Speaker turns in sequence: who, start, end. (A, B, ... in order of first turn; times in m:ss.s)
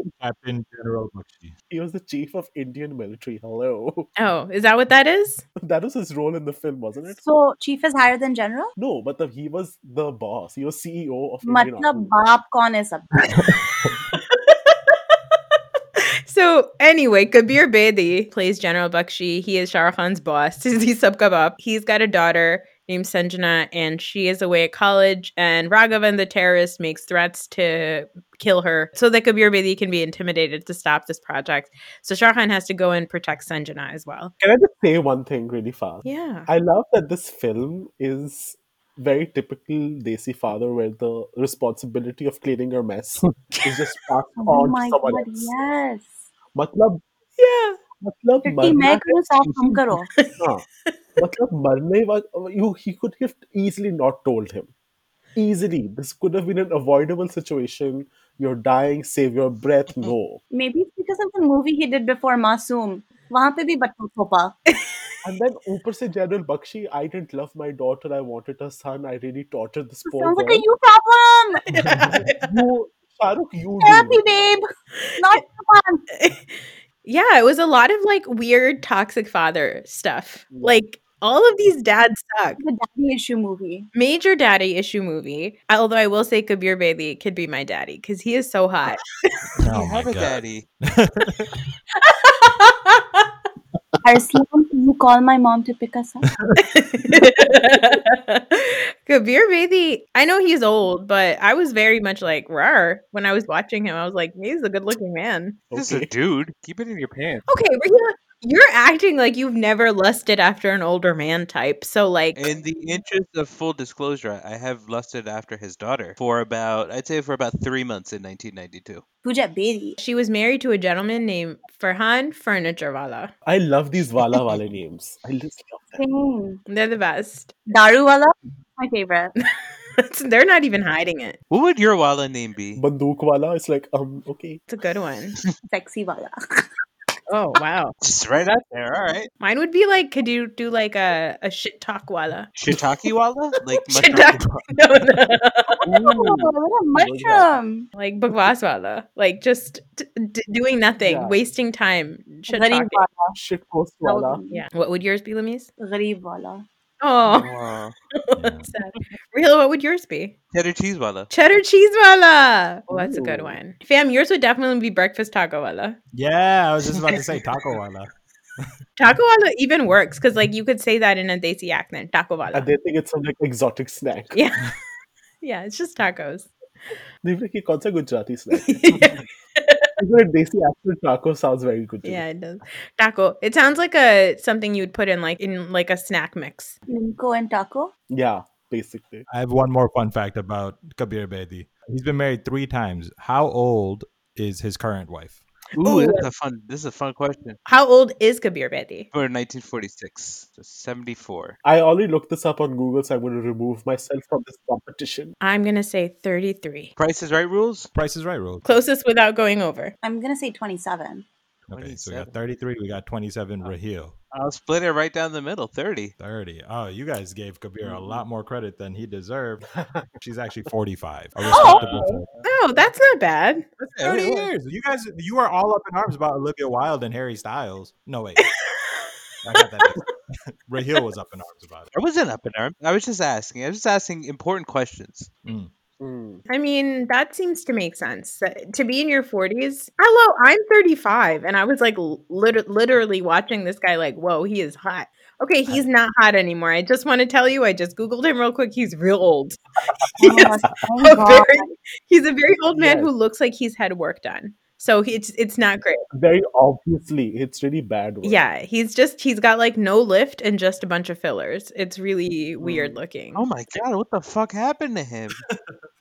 0:00.2-0:01.6 A
0:01.7-0:04.1 B
0:04.2-0:05.4 C
0:05.6-0:07.2 B
0:07.2-0:08.7 D
0:08.8-0:12.1 B
0:11.4-0:13.1 D
0:13.3-0:13.9 A
0:14.1-0:15.0 C
0:16.0-0:34.3 C
0:34.4-0:45.5 B
0:36.0-0:36.5 C
0:44.4-0:46.2 D
0:46.5-0:47.0 B
0:47.4-0:47.8 C
0:48.0-0:49.8 B
0:48.4-0:50.1 D
0:50.1-0:50.9 C
0:50.4-0:50.7 B
0:51.2-0:54.7 B
0:55.4-1:00.4 B
1:00.5-1:04.6 D
1:04.7-1:05.0 C
1:05.2-1:10.6 B
1:10.0-1:11.7 D
1:11.7-1:12.4 C
1:11.8-1:12.2 A
1:12.2-1:14.3 B
1:13.8-1:14.6 D
1:15.2-1:16.0 D
1:16.2-1:16.5 C
1:17.0-1:22.6 C
1:20.5-1:20.8 B
1:22.6-1:23.9 D
1:24.0-1:29.1 C
1:29.6-1:31.5 A
1:29.7-1:30.7 E
1:32.0-1:33.3 C
1:34.0-1:36.2 D
1:36.3-1:36.6 A
1:36.6-1:45.6 C
1:45.7-1:46.1 B
1:45.7-1:47.5 E
1:47.5-1:52.4 C
1:52.4-1:59.0 E
1:59.2-2:00.0 D
2:00.0-2:03.3 C
2:03.4-2:06.0 B
2:06.0-2:06.6 D
2:06.7-2:07.5 C
2:07.7-2:09.3 D
2:10.0-2:11.4 C
2:11.5-2:12.8 E
2:12.8-2:14.6 B
2:14.7-2:15.4 C
2:15.7-2:16.7 D
2:17.3-2:18.0 C
2:18.0-2:19.3 E
2:19.4-2:22.5 C
2:22.6-2:24.4 E
2:23.8-2:25.8 C
2:25.9-2:27.5 E
2:26.0-2:27.9 D
2:28.0-2:33.0 C
2:31.0-2:31.4 B
2:32.5-2:33.4 D
2:33.4-2:34.4 B
2:34.0-2:34.6 D
2:34.5-2:35.7 C
2:35.8-2:36.7 D
2:37.0-2:37.5 C
2:37.2-2:38.0 E
2:38.2-2:40.4 C
2:38.4-2:38.7 A
2:40.5-2:41.3 E
2:41.3-2:46.0 C
2:42.9-2:43.6 B
2:46.1-2:48.1 A
2:49.0-2:52.7 C
2:52.5-2:54.4 B
2:54.3-2:54.7 C
2:55.4-2:56.5 C
2:57.2-2:59.1 B
2:58.6-2:59.9 C
3:00.0-3:02.2 B
3:02.0-3:06.8 C
3:06.9-3:07.9 D
3:08.1-3:09.3 B
3:09.3-3:15.4 A
3:15.8-3:17.6 E
3:15.8-3:16.3 C
3:17.7-3:19.1 C
3:19.1-3:21.6 E
3:21.6-3:25.3 B
3:25.4-3:26.9 C
3:27.0-3:27.9 E
3:27.9-3:28.8 A
3:28.6-3:29.9 C
3:30.0-3:31.3 D
3:31.7-3:34.2 A
3:31.7-3:32.4 E
3:34.3-3:36.1 E
3:36.2-3:42.3 A
3:39.8-3:40.1 B
3:41.4-3:43.6 C
3:41.5-3:42.1 E
3:43.8-3:44.5 E
3:44.0-3:48.5 A
3:48.6-3:49.0 C
3:49.4-3:51.9 A
3:51.9-3:55.3 E
3:55.4-3:55.7 A
3:56.0-3:56.4 B
3:56.5-4:09.6 C
4:10.1-4:10.5 C
4:10.2-4:11.7 D
4:11.0-4:16.0 C
4:12.8-4:13.1 B
4:16.1-4:18.4 B
4:18.2-4:23.4 C
4:22.7-4:25.4 E